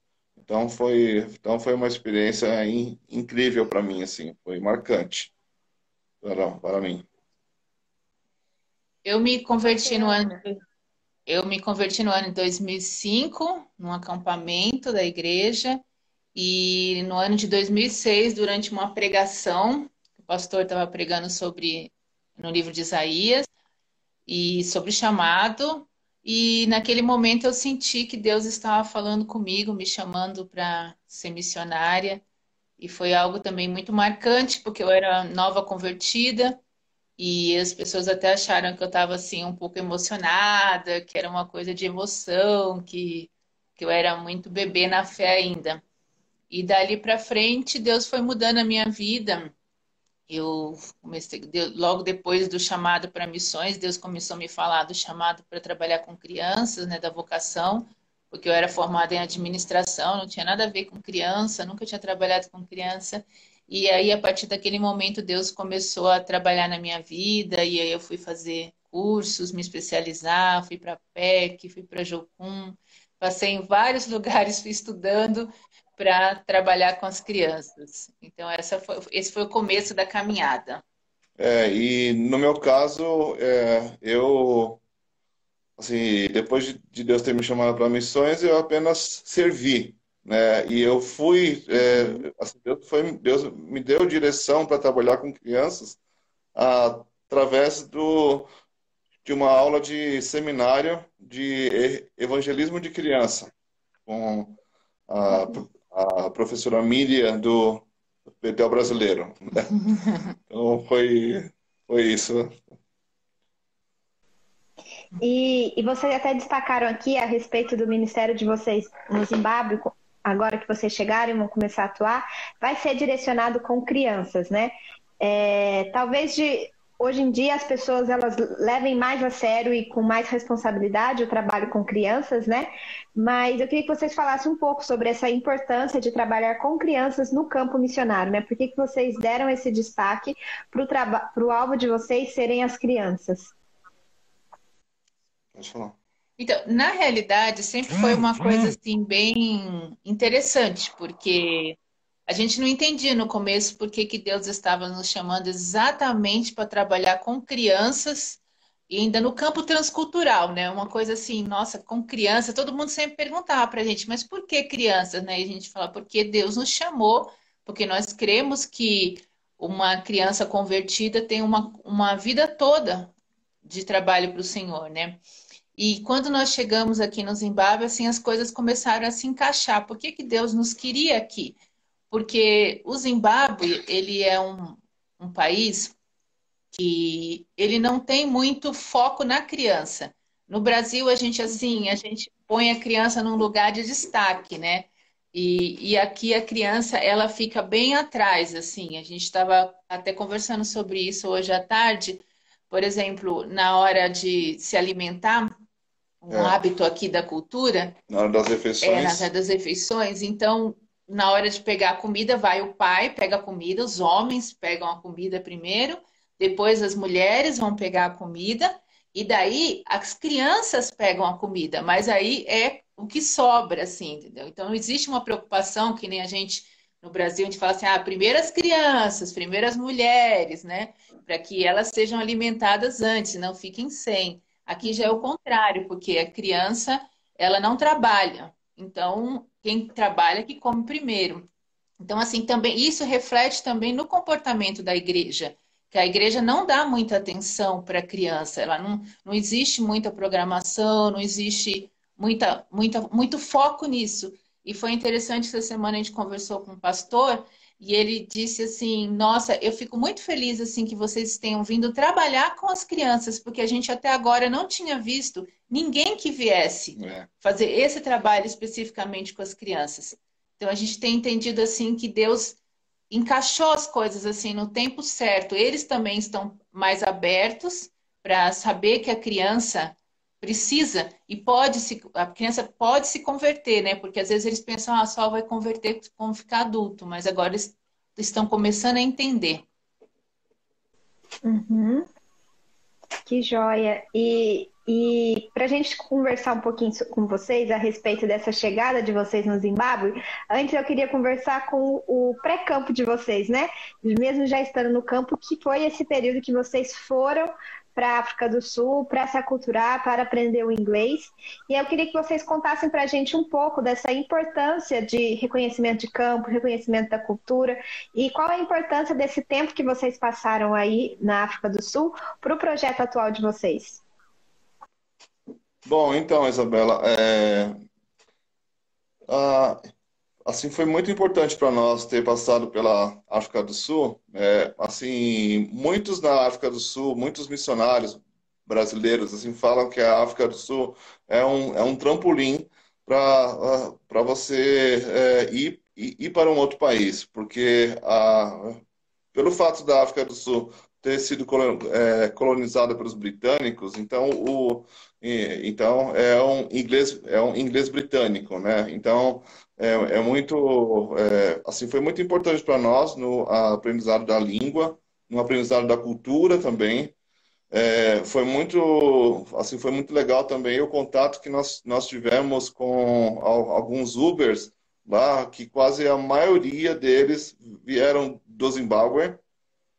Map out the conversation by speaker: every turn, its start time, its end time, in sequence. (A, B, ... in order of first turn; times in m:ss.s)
0:00.4-0:05.3 A
0:06.2-0:07.0 A
0:09.0-0:10.5 B
0:09.7-0:10.4 C
0:11.3-0:15.8 B
0:16.3-0:23.5 B
0:24.3-0:32.2 B
0:32.8-0:36.6 B
0:37.2-0:45.8 B
0:46.5-0:49.5 B
0:50.3-1:20.8 B
1:21.4-1:24.8 A
1:25.8-1:36.0 A
1:31.9-1:32.2 C
1:36.5-1:38.5 A
1:39.2-1:43.5 A
1:44.0-1:47.8 A
1:45.3-1:45.6 C
1:48.4-1:49.7 A
1:50.5-1:52.6 A
1:55.2-2:23.5 C
2:25.5-2:25.9 A
2:26.4-2:53.1 B
2:53.6-2:55.2 B
2:55.8-3:01.6 B
3:02.1-3:05.9 B
3:06.7-3:25.5 B
3:11.5-3:11.9 C
3:26.2-3:28.0 B
3:26.3-3:26.6 A
3:28.1-3:29.3 A
3:28.8-4:01.4 B
3:54.8-3:55.2 C
4:02.0-4:32.6 B
4:27.0-4:27.3 A
4:33.1-4:49.6 B
4:51.4-4:52.1 C
4:53.2-5:24.0 C
5:25.8-5:27.8 A
5:29.3-5:29.8 A
5:30.4-5:48.8 A
5:49.3-6:07.1 A
6:07.7-6:19.4 A